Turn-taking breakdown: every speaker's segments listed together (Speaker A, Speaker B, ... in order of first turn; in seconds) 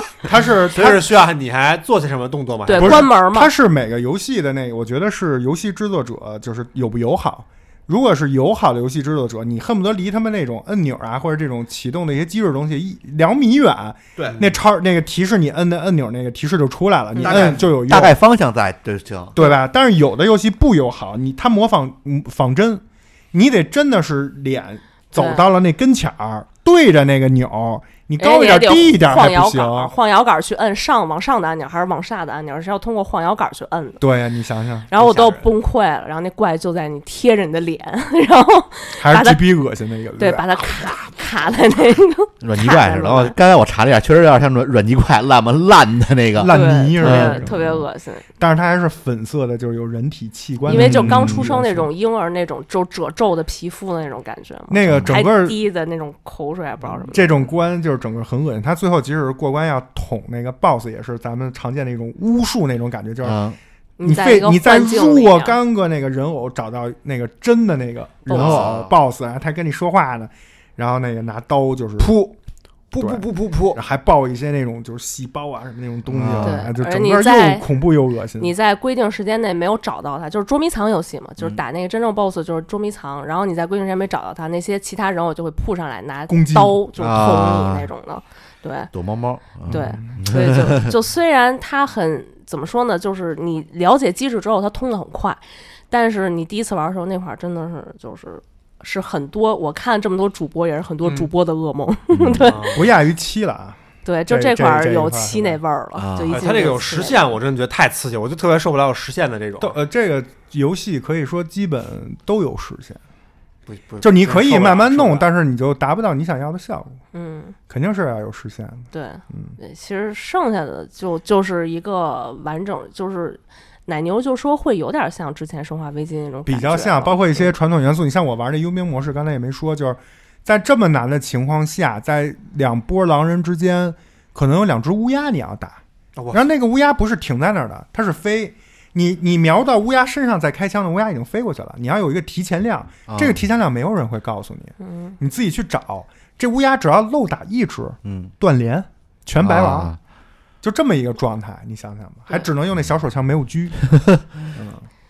Speaker A: 0.2-1.1, 2.8-18.2, 19.4-29.9, 34.0-34.9, 39.0-41.0, 46.4-47.8, 48.4-51.9, 54.7-55.6, 57.1-63.4, 64.0-72.2, 73.0-78.5, 86.3-86.8, 89.7-90.0, 102.7-105.6, 109.6-113.0, 114.0-117.0, 117.7-119.5, 126.5-135.8, 136.3-149.9, 150.6-153.9, 154.5-154.8
Speaker B: 0.7-3.1, 35.0-35.4, 72.0-72.3, 72.9-73.8, 102.4-102.8, 106.3-109.7, 113.7-115.3, 136.2-136.4
Speaker C: 2.6-3.5, 25.1-25.4, 28.2-34.0, 34.9-39.5, 40.2-43.3, 46.4-48.2, 50.7-57.5, 64.0-65.6, 76.4-77.7, 78.4-88.9, 89.7-102.7, 104.0-107.2, 117.1-117.5, 118.9-127.5, 144.8-145.2
Speaker D: 17.2-19.4, 42.4-47.5, 50.7-51.4, 63.2-63.5, 68.3-68.9, 76.1-76.6, 87.0-87.9, 88.9-90.9, 102.1-102.5, 106.0-106.4, 143.1-143.3, 148.0-148.3, 149.4-150.0